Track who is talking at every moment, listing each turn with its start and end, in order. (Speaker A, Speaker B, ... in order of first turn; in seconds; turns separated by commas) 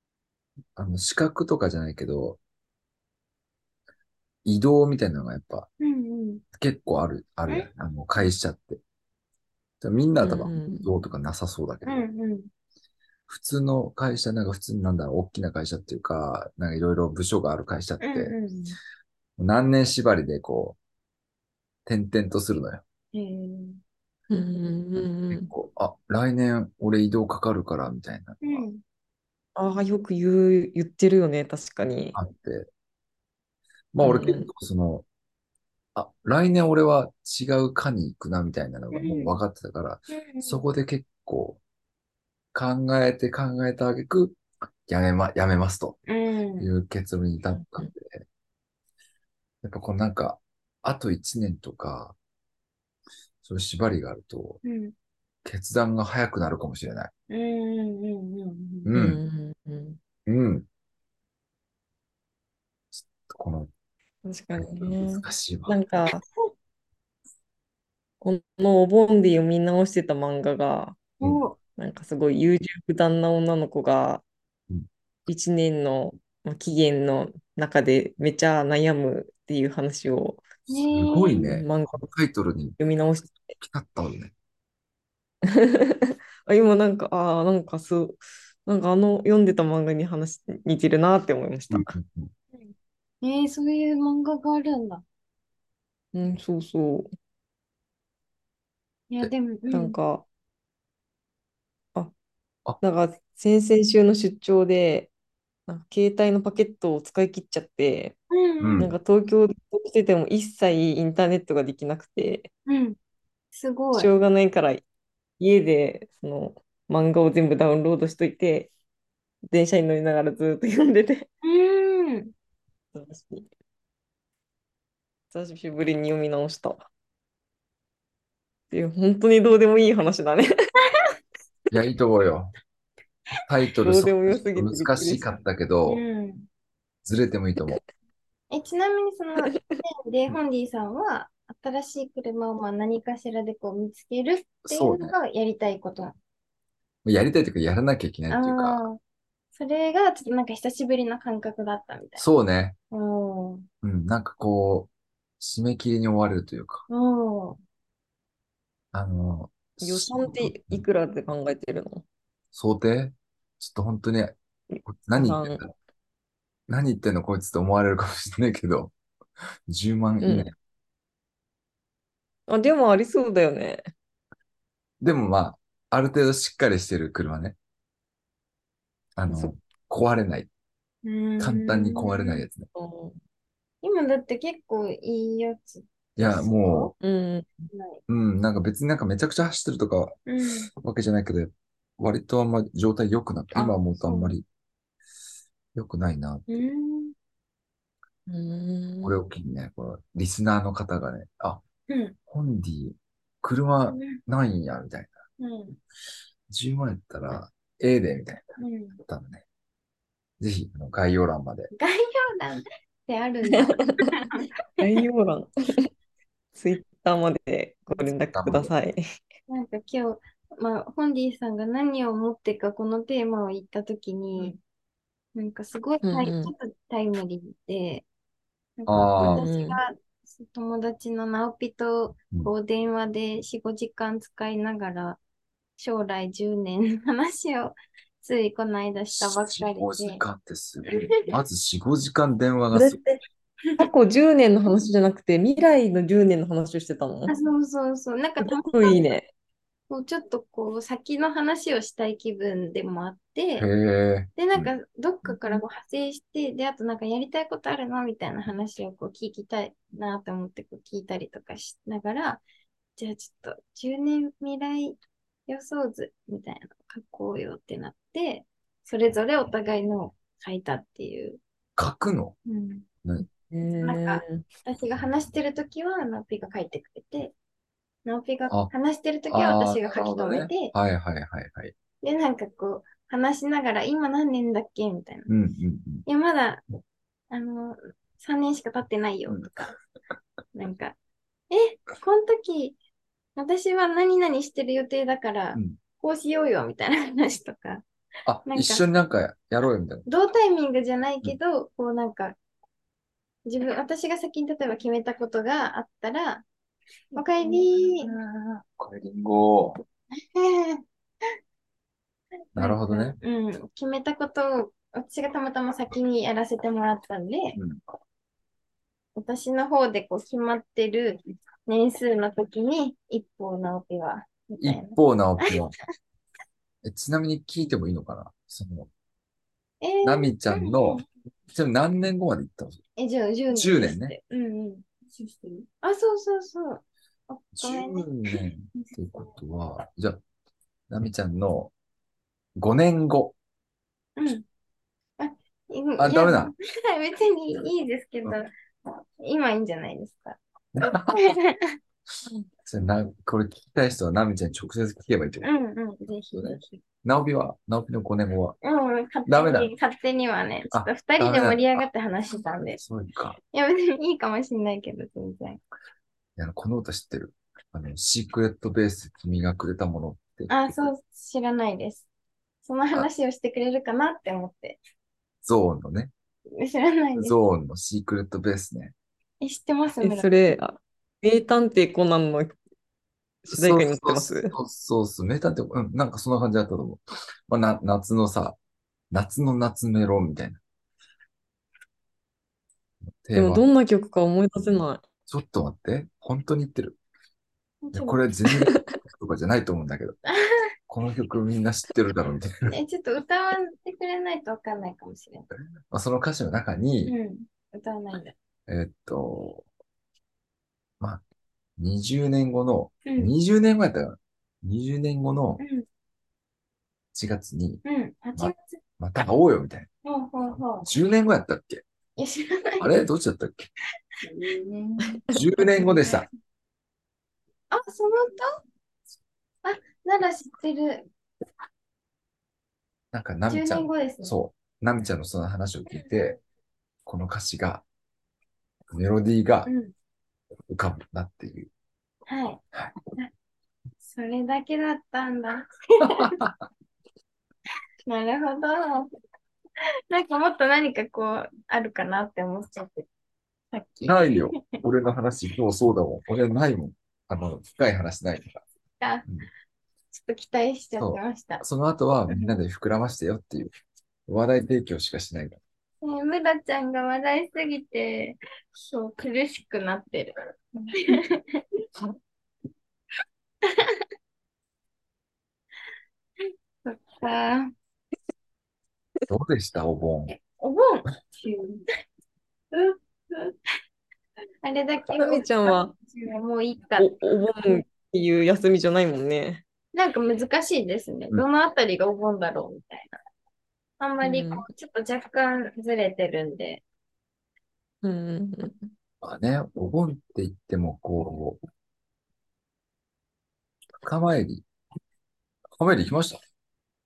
Speaker A: 0.8-2.4, Speaker A: 4.4-5.7, Speaker B: 5.8-6.4, Speaker A: 6.5-8.8, Speaker A: 9.8-12.0, Speaker C: 10.2-10.9, Speaker B: 11.8-12.5, Speaker A: 13.3-18.4, Speaker B: 18.0-18.8, Speaker A: 19.4-20.8, Speaker A: 21.9-22.8, Speaker B: 23.1-23.8, Speaker C: 24.3-25.5, Speaker A: 25.3-28.6, Speaker B: 28.4-28.8, Speaker C: 29.6-32.1, Speaker A: 32.1-32.7, Speaker A: 33.9-35.0, Speaker C: 34.0-34.5, Speaker A: 35.9-41.6, Speaker B: 38.9-39.4, Speaker B: 40.1-40.6, Speaker A: 42.5-46.0, Speaker B: 46.1-46.7, Speaker A: 46.6-48.2, Speaker A: 49.6-52.1, Speaker A: 53.4-54.6, Speaker B: 54.6-54.9, Speaker A: 55.4-57.1, Speaker B: 57.3-58.9, Speaker A: 58.9-59.2, Speaker C: 58.9-60.0, Speaker A: 60.2-60.6, Speaker A: 62.9-63.7, Speaker C: 64.2-66.2, Speaker A: 64.5-65.8, Speaker C: 68.2-71.0, Speaker B: 71.2-71.6, Speaker C: 71.8-74.2, Speaker C: 75.3-80.4, Speaker B: 80.7-81.5, Speaker A: 80.9-82.8, Speaker C: 81.4-82.1, Speaker C: 82.8-83.5, Speaker A: 83.6-84.3, Speaker C: 85.5-91.9, Speaker A: 91.7-92.3, Speaker B: 92.5-95.0, Speaker C: 96.1-97.1, Speaker B: 99.1-100.0, Speaker C: 99.7-100.2, Speaker C: 102.8-105.1, Speaker C: 105.7-108.2, Speaker B: 108.3-108.8, Speaker A: 108.6-108.9, Speaker C: 108.8-112.5, Speaker B: 112.7-113.0, Speaker B: 113.5-114.1, Speaker C: 113.9-114.8, Speaker C: 115.4-118.7, Speaker C: 119.5-121.3, Speaker B: 121.4-122.3, Speaker C: 122.9-123.5, Speaker C: 125.3-126.9, Speaker C: 128.7-130.5, Speaker A: 131.7-132.5, Speaker A: 133.5-136.0, Speaker C: 133.8-135.2, Speaker B: 135.9-136.5, Speaker A: 137.0-137.8, Speaker B: 138.5-146.2, Speaker C: 139.5-139.8, Speaker A: 144.6-145.1, Speaker A: 147.0-148.8, Speaker B: 148.3-149.0, Speaker B: 149.5-152.2, Speaker A: 152.2-152.8, Speaker B: 152.9-153.7, Speaker A: 153.8-156.8, Speaker B: 156.9-157.6, Speaker A: 158.9-160.8, Speaker C: 159.8-162.0, Speaker A: 162.5-165.7, Speaker C: 164.7-165.6, Speaker A: 166.7-168.9, Speaker A: 169.7-170.5, Speaker C: 170.2-170.5, Speaker C: 172.5-173.8, Speaker A: 175.0-177.6, Speaker A: 179.2-180.5, Speaker C: 179.3-179.5, Speaker B: 181.0-182.4, Speaker A: 181.4-182.7, Speaker C: 182.7-183.2, Speaker B: 183.8-186.9, Speaker A: 186.2-186.9, Speaker C: 187.0-187.5, Speaker B: 187.7-188.0, Speaker A: 188.1-190.2, Speaker B: 190.3-190.7, Speaker A: 190.8-194.4, Speaker B: 193.5-194.3, Speaker A: 195.7-196.6, Speaker B: 196.5-197.1, Speaker C: 198.3-199.2, Speaker A: 199.0-201.6, Speaker B: 201.9-202.2, Speaker A: 202.3-205.2, Speaker B: 203.9-204.2, Speaker B: 205.4-205.8, Speaker A: 206.5-208.4, Speaker B: 208.6-209.0, Speaker A: 209.0-209.4, Speaker A: 210.4-211.7, Speaker B: 211.7-215.0, Speaker C: 213.5-214.1, Speaker C: 214.8-215.5, Speaker C: 216.5-219.0, Speaker A: 218.3-218.7, Speaker B: 219.5-224.6, Speaker B: 225.3-228.0, Speaker C: 226.0-226.5, Speaker B: 228.8-235.2, Speaker A: 228.9-229.4, Speaker C: 229.3-229.8, Speaker B: 235.8-240.2, Speaker A: 239.1-243.0, Speaker C: 242.7-243.2, Speaker C: 243.8-247.3, Speaker B: 247.3-249.0, Speaker C: 248.4-249.3, Speaker B: 249.9-253.7, Speaker A: 253.6-254.7, Speaker B: 254.3-262.4, Speaker B: 263.0-271.4, Speaker A: 271.8-272.4, Speaker B: 272.4-272.9, Speaker C: 273.5-274.4, Speaker B: 273.8-277.3, Speaker B: 278.0-280.7, Speaker A: 279.3-281.7, Speaker B: 282.0-285.3, Speaker A: 285.3-286.0, Speaker B: 286.1-286.6, Speaker B: 287.3-289.7, Speaker B: 290.5-291.0, Speaker B: 291.5-292.8, Speaker B: 293.4-297.8, Speaker A: 298.2-300.1, Speaker B: 298.5-298.8, Speaker B: 300.1-302.4, Speaker B: 303.4-306.4, Speaker B: 307.1-308.6, Speaker A: 308.8-309.8, Speaker B: 310.1-310.8, Speaker B: 312.5-317.6, Speaker A: 312.5-313.2, Speaker A: 317.6-317.8, Speaker B: 319.1-325.5, Speaker A: 324.6-325.7, Speaker A: 326.8-328.9, Speaker B: 329.8-331.0, Speaker A: 330.0-332.8, Speaker B: 333.0-339.0, Speaker A: 333.5-334.1, Speaker A: 337.5-340.2, Speaker A: 340.9-341.7, Speaker A: 342.6-343.3, Speaker B: 344.2-344.4, Speaker B: 345.2-348.5, Speaker A: 346.0-346.5, Speaker B: 349.2-351.8, Speaker A: 350.7-351.3, Speaker A: 352.6-355.5, Speaker B: 355.4-356.8, Speaker A: 356.4-358.6, Speaker B: 358.6-362.8, Speaker A: 359.3-359.7, Speaker A: 360.7-361.8, Speaker A: 362.8-363.4, Speaker B: 363.5-365.6, Speaker A: 366.4-370.9, Speaker B: 370.5-372.1, Speaker B: 372.6-374.8, Speaker A: 375.4-376.1, Speaker B: 376.6-377.4, Speaker A: 377.1-378.9, Speaker B: 379.4-380.6, Speaker C: 380.0-382.6, Speaker C: 383.4-384.5, Speaker A: 383.5-388.6, Speaker A: 389.1-390.6, Speaker A: 393.2-393.6, Speaker C: 393.4-395.0, Speaker A: 395.3-397.0, Speaker B: 397.8-398.3, Speaker A: 397.9-400.2, Speaker C: 398.5-398.8, Speaker A: 400.9-402.7, Speaker B: 402.7-405.5, Speaker A: 405.9-407.1, Speaker B: 407.1-408.4, Speaker A: 408.7-409.6, Speaker A: 411.8-415.6, Speaker B: 413.1-413.3, Speaker B: 415.6-415.8, Speaker A: 417.1-417.8, Speaker B: 417.8-418.8, Speaker A: 418.4-419.9, Speaker B: 420.0-420.9, Speaker A: 420.8-421.8, Speaker B: 422.2-422.9, Speaker A: 422.8-423.7, Speaker B: 424.3-425.1, Speaker A: 425.3-426.3, Speaker B: 425.8-426.3, Speaker B: 427.7-428.5, Speaker B: 429.6-431.1, Speaker A: 433.1-436.4, Speaker B: 433.5-434.3, Speaker A: 437.1-437.8, Speaker A: 438.9-439.7, Speaker B: 439.6-439.9, Speaker A: 440.7-441.7, Speaker B: 442.3-442.6, Speaker B: 444.0-446.4, Speaker A: 446.0-446.5, Speaker B: 448.1-449.1, Speaker B: 450.1-453.1, Speaker B: 453.7-454.8, Speaker A: 454.1-458.6, Speaker B: 459.0-459.2, Speaker B: 460.1-461.6, Speaker A: 461.0-463.7, Speaker B: 462.3-462.6, Speaker A: 464.3-465.6, Speaker B: 466.0-471.6, Speaker B: 473.6-474.0, Speaker B: 476.4-477.7, Speaker A: 479.3-480.3, Speaker B: 480.3-481.8, Speaker B: 482.7-483.6, Speaker B: 484.6-487.8, Speaker C: 485.2-485.9, Speaker C: 487.0-489.6, Speaker B: 489.9-493.2, Speaker B: 494.0-496.8, Speaker C: 494.2-494.6, Speaker C: 498.0-498.9, Speaker A: 499.2-501.6, Speaker A: 504.0-504.6, Speaker A: 505.8-506.4